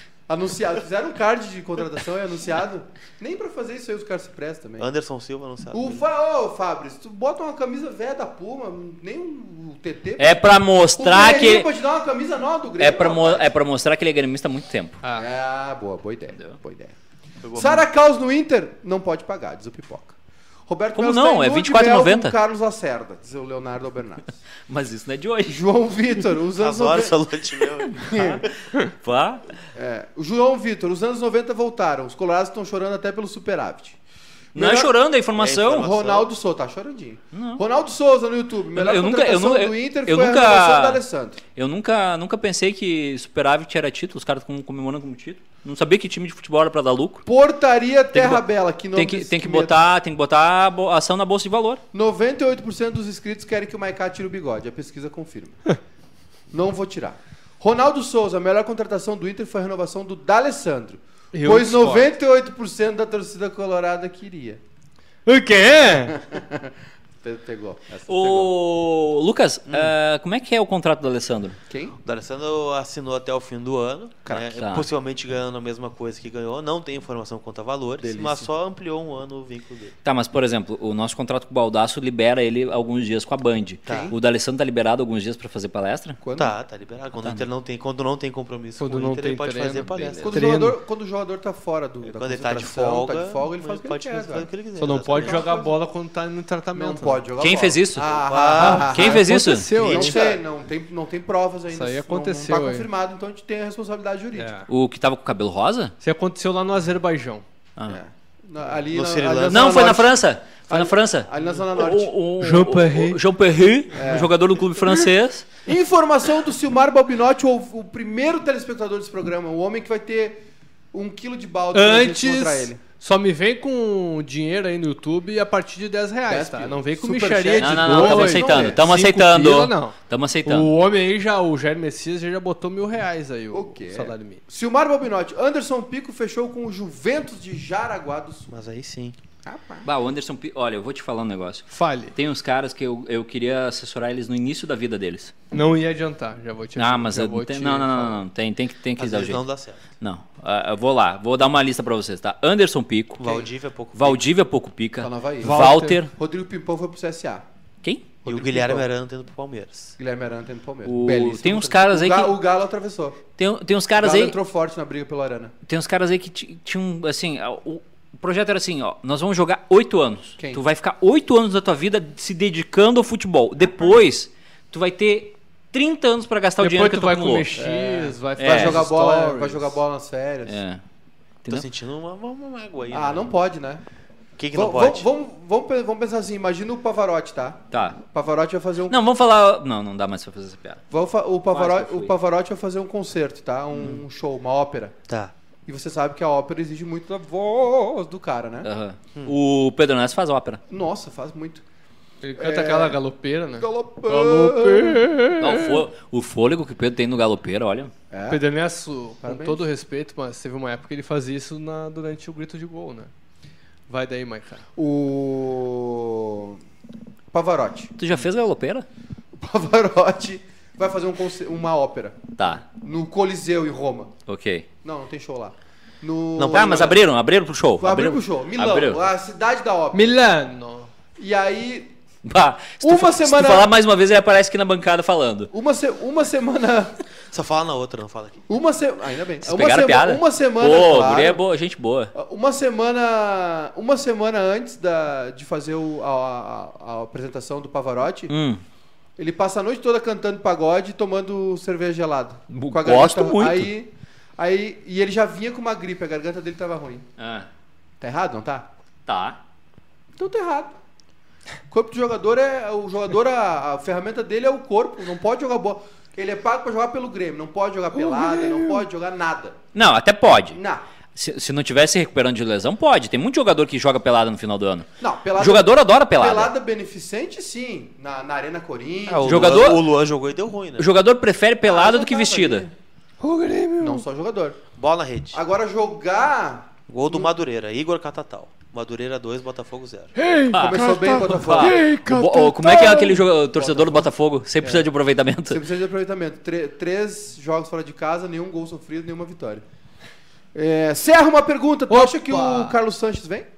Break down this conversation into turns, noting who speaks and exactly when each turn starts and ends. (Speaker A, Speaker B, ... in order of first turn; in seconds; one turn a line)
Speaker A: 0.3-4.9
Speaker B: 4.8-6.0
Speaker A: 5.7-13.5
Speaker C: 10.2-11.7
Speaker C: 12.8-15.0
Speaker D: 15.0-15.3
Speaker A: 15.1-16.9
Speaker B: 17.4-17.9
Speaker A: 17.5-20.1
Speaker A: 20.7-24.4
Speaker C: 20.9-22.4
Speaker C: 24.7-25.6
Speaker A: 25.4-27.2
Speaker B: 26.6-28.5
Speaker A: 27.9-28.4
Speaker C: 28.0-29.5
Speaker A: 29.7-34.0
Speaker A: 34.5-34.9
Speaker C: 34.5-35.9
Speaker B: 35.3-36.3
Speaker A: 35.8-41.4
Speaker C: 37.3-37.6
Speaker C: 38.7-41.0
Speaker C: 41.5-47.2
Speaker A: 47.2-49.8
Speaker C: 48.1-51.8
Speaker A: 51.9-55.6
Speaker A: 56.5-64.6
Speaker D: 61.3-62.1
Speaker D: 65.2-66.2
Speaker A: 66.1-68.5
Speaker C: 68.1-71.6
Speaker B: 69.7-69.9
Speaker A: 71.7-72.0
Speaker B: 72.0-79.9
Speaker A: 74.2-74.6
Speaker C: 74.6-74.9
Speaker A: 78.0-78.5
Speaker C: 80.0-86.2
Speaker B: 83.9-84.1
Speaker A: 83.9-84.2
Speaker A: 86.2-86.5
Speaker B: 86.3-90.5
Speaker C: 87.2-87.5
Speaker D: 88.8-90.8
Speaker A: 90.2-94.5
Speaker B: 92.0-95.5
Speaker D: 94.8-97.2
Speaker A: 95.1-95.7
Speaker A: 96.7-104.5
Speaker C: 97.4-98.1
Speaker B: 98.0-99.1
Speaker D: 98.6-100.2
Speaker C: 98.9-99.7
Speaker B: 99.7-100.4
Speaker D: 101.7-102.9
Speaker D: 104.3-104.7
Speaker C: 104.7-105.9
Speaker D: 106.0-107.4
Speaker A: 107.9-110.2
Speaker B: 108.9-109.9
Speaker C: 109.5-115.5
Speaker A: 110.7-112.1
Speaker D: 112.4-113.2
Speaker A: 113.9-114.3
Speaker A: 115.7-120.4
Speaker A: 120.9-122.8
Speaker D: 121.7-134.4
Speaker A: 126.3-128.9
Speaker C: 127.6-130.7
Speaker A: 133.5-138.5
Speaker B: 138.5-139.2
Speaker A: 139.4-139.8
Speaker C: 139.8-145.3
Speaker D: 141.7-142.1
Speaker D: 145.5-148.2
Speaker C: 146.8-149.4
Speaker B: 149.0-149.8
Speaker C: 150.0-156.1
Speaker B: 153.2-154.2
Speaker A: 155.0-157.4
Speaker D: 155.4-156.0
Speaker C: 157.8-158.1
Speaker B: 158.2-159.9
Speaker A: 158.2-158.8
Speaker A: 160.0-163.2
Speaker C: 160.8-162.3
Speaker C: 163.4-164.3
Speaker A: 164.0-165.5
Speaker C: 165.7-177.5
Speaker D: 176.6-179.8
Speaker A: 177.5-180.6
Speaker C: 178.4-178.8
Speaker C: 180.5-180.8
Speaker B: 181.5-183.3
Speaker A: 182.9-183.8
Speaker B: 184.4-185.1
Speaker A: 184.5-189.0
Speaker C: 187.7-188.0
Speaker C: 188.9-190.8
Speaker A: 190.9-194.9
Speaker C: 191.5-192.1
Speaker B: 195.1-195.3
Speaker A: 195.7-198.7
Speaker C: 198.6-200.6
Speaker A: 200.7-201.6
Speaker D: 202.2-205.8
Speaker A: 202.3-203.0
Speaker A: 203.6-205.1
Speaker C: 205.4-207.9
Speaker A: 208.1-208.4
Speaker D: 208.3-213.1
Speaker A: 209.2-209.6
Speaker D: 213.9-214.7
Speaker A: 214.8-216.6
Speaker A: 217.3-217.9
Speaker C: 218.0-218.8
Speaker A: 219.3-224.1
Speaker C: 222.4-222.6
Speaker C: 224.3-224.7
Speaker A: 224.8-227.0
Speaker B: 226.4-227.0
Speaker C: 226.5-229.1
Speaker A: 227.8-230.2
Speaker D: 229.9-230.9
Speaker A: 231.2-231.9
Speaker C: 232.2-235.5
Speaker A: 232.8-233.7
Speaker A: 235.5-236.9
Speaker B: 237.3-238.4
Speaker A: 238.5-241.4
Speaker C: 239.4-242.1
Speaker A: 242.1-248.3
Speaker C: 248.3-248.6
Speaker A: 249.2-257.1
Speaker C: 252.5-253.7
Speaker C: 257.2-257.5
Speaker A: 258.0-258.7
Speaker C: 259.1-259.4
Speaker A: 260.2-260.8
Speaker A: 261.7-269.6
Speaker D: 267.9-268.8
Speaker C: 269.7-270.6
Speaker A: 270.5-270.8
Speaker C: 271.1-276.5
Speaker A: 275.0-279.7
Speaker B: 279.1-280.9
Speaker C: 279.2-279.9
Speaker C: 280.8-282.7
Speaker A: 281.6-282.7
Speaker D: 283.2-284.0
Speaker A: 283.8-284.6
Speaker B: 284.8-285.4
Speaker A: 285.3-287.3
Speaker B: 286.9-290.1
Speaker D: 290.1-293.2
Speaker C: 290.5-295.6
Speaker A: 290.5-291.9
Speaker A: 293.5-294.9
Speaker A: 295.5-299.6
Speaker A: 300.5-303.5
Speaker D: 301.9-302.8